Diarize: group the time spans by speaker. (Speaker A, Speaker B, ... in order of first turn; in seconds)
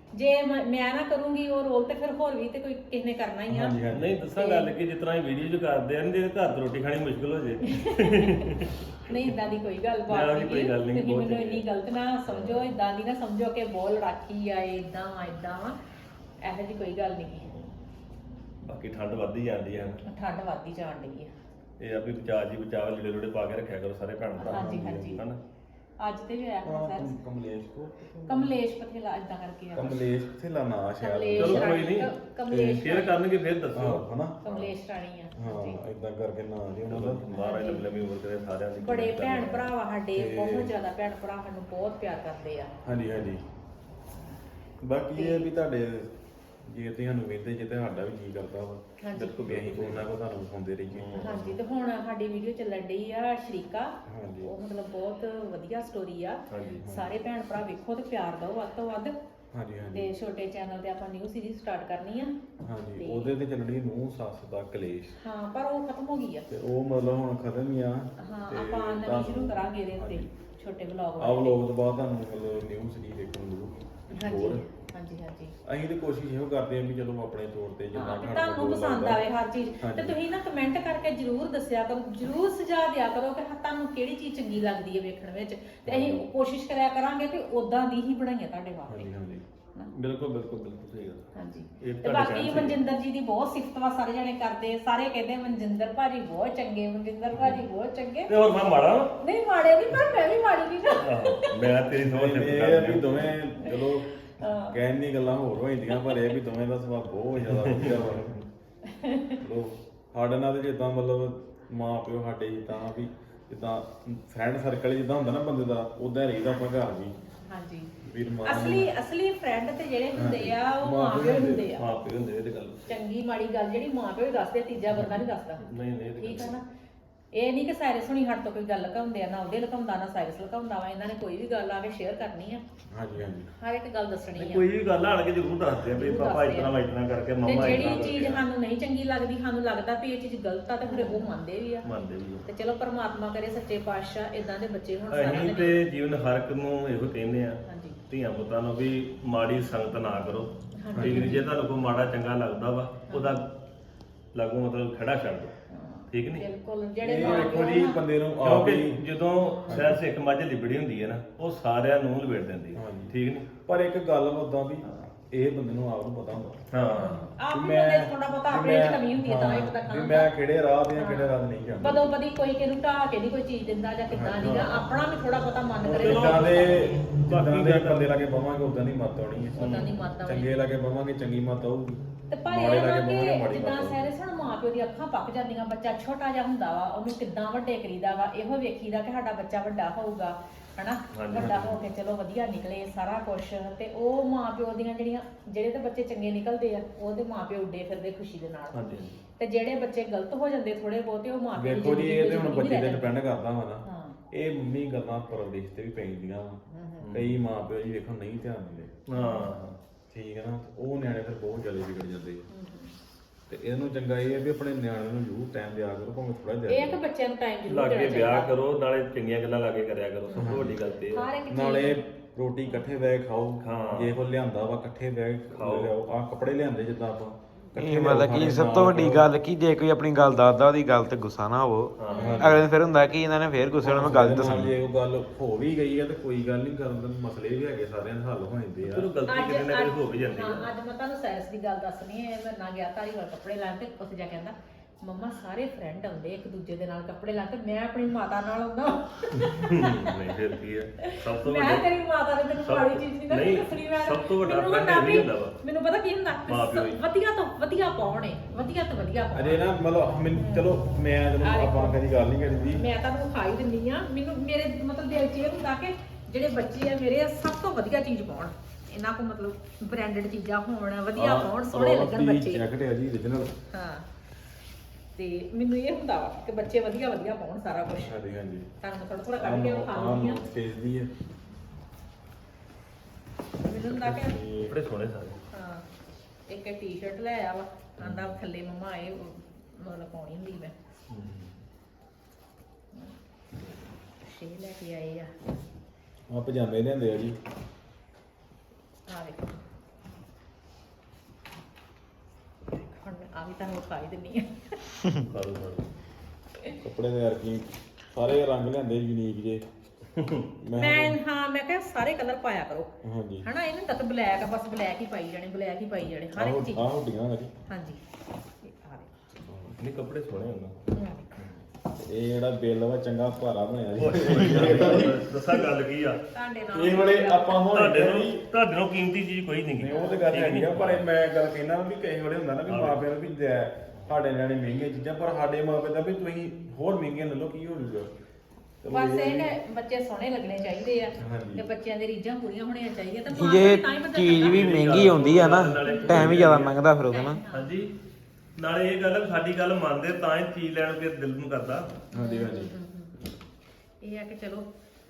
Speaker A: 0.1-3.8, 4.3-4.7, 7.7-8.5, 9.1-15.8, 16.4-17.5, 20.1-21.3, 24.4-25.2, 26.0-27.1, 28.3-30.0, 31.0-33.2, 34.4-35.8, 37.3-37.8, 38.8-42.7, 45.1-45.5, 49.0-49.4, 51.2-59.1, 59.9-62.4, 63.0-63.3, 65.2-66.5, 68.2-71.6, 74.1-75.5, 77.9-89.1, 91.3-98.3, 99.2-101.6, 103.6-103.8, 104.4-104.8, 105.9-106.2, 108.8-109.4, 117.4-117.9, 118.4-121.8, 122.9-125.6, 126.2-126.6, 127.3-132.6, 133.6-134.7, 135.9-136.7, 137.4-141.8, 142.5-145.8, 147.7-148.0, 150.8-151.4, 153.1-153.4, 155.7-158.0, 159.5-159.8, 166.9-170.3, 170.9-177.0, 179.6-180.6, 182.3-198.8, 199.4-203.1, 203.8-204.2, 206.7-207.1, 209.1-209.5, 212.5-212.9, 216.7-218.5, 220.3-222.0, 232.1-232.5, 239.3-250.1, 251.0-260.7, 261.4-262.0, 262.6-272.6, 273.7-274.1, 275.1-278.1, 278.8-280.4, 283.6-284.4, 285.5-285.9, 286.5-290.7, 294.2-295.3, 299.1-299.6, 302.7-305.0, 310.7-312.9, 313.4-316.9, 317.7-318.0, 318.6-319.1, 320.9-321.3, 326.3-327.6, 329.9-330.2, 338.9-346.5, 347.0-347.7, 352.1-353.2, 354.0-354.6
Speaker B: 3.5-4.2, 24.4-25.2, 26.6-28.5, 29.7-31.7, 33.7-34.4, 35.3-37.2, 40.1-40.7, 42.8-43.4, 44.8-48.8, 49.4-51.5, 54.0-54.5, 56.8-57.1, 59.5-60.1, 62.6-65.1, 66.5-70.2, 71.2-74.6, 75.7-79.2, 79.8-80.2, 85.8-86.2, 88.9-89.4, 97.4-97.6, 102.0-104.1, 104.7-108.4, 109.4-117.1, 118.0-118.9, 120.1-121.7, 124.9-125.2, 132.9-133.5, 137.5-138.3, 150.9-151.4, 157.0-159.0, 159.7-160.0, 162.7-166.6, 167.5-172.2, 174.1-174.9, 175.8-179.7, 180.2-184.1, 191.3-191.8, 201.5-206.6, 207.1-208.9, 210.1-212.4, 213.5-217.0, 220.4-220.8, 221.5-229.3, 232.1-232.7, 233.8-239.1, 259.3-262.8, 271.1-273.5, 278.0-278.7, 279.4-281.1, 283.7-284.7, 296.3-297.4, 306.8-309.6, 310.6-311.2, 313.0-313.5, 316.3-317.5, 319.4-319.8, 322.0-325.2, 326.7-328.4, 329.8-338.1, 338.8-339.5, 341.2-341.6, 352.1-352.7
Speaker C: 3.9-9.1, 10.1-11.6, 12.3-12.7, 18.6-20.0, 21.8-25.4, 31.3-34.7, 36.9-39.7, 49.1-50.1, 50.9-51.5, 56.5-56.8, 89.9-91.2, 91.8-92.8, 98.3-99.2, 101.0-103.3, 107.5-108.4, 121.8-122.9, 125.6-126.5, 134.3-138.4, 141.8-142.4, 145.1-153.5, 154.3-155.5, 156.1-156.4, 157.2-157.5, 158.4-163.5, 166.7-167.3, 175.9-176.6, 177.2-178.1, 179.6-179.9, 191.1-191.6, 198.7-199.2, 207.0-207.4, 209.1-209.8, 217.7-221.3, 223.6-224.2, 225.5-225.9, 232.0-232.5, 238.8-240.7, 249.4-251.8, 252.6-255.5, 256.5-257.0, 284.6-285.4, 288.0-288.3, 291.1-291.5, 305.3-305.9, 310.1-310.5, 319.8-320.8, 324.0-326.2, 327.7-331.0, 332.7-333.0, 344.4-346.8, 347.5-347.9, 348.6-351.9
Speaker D: 227.7-234.7, 343.3-347.4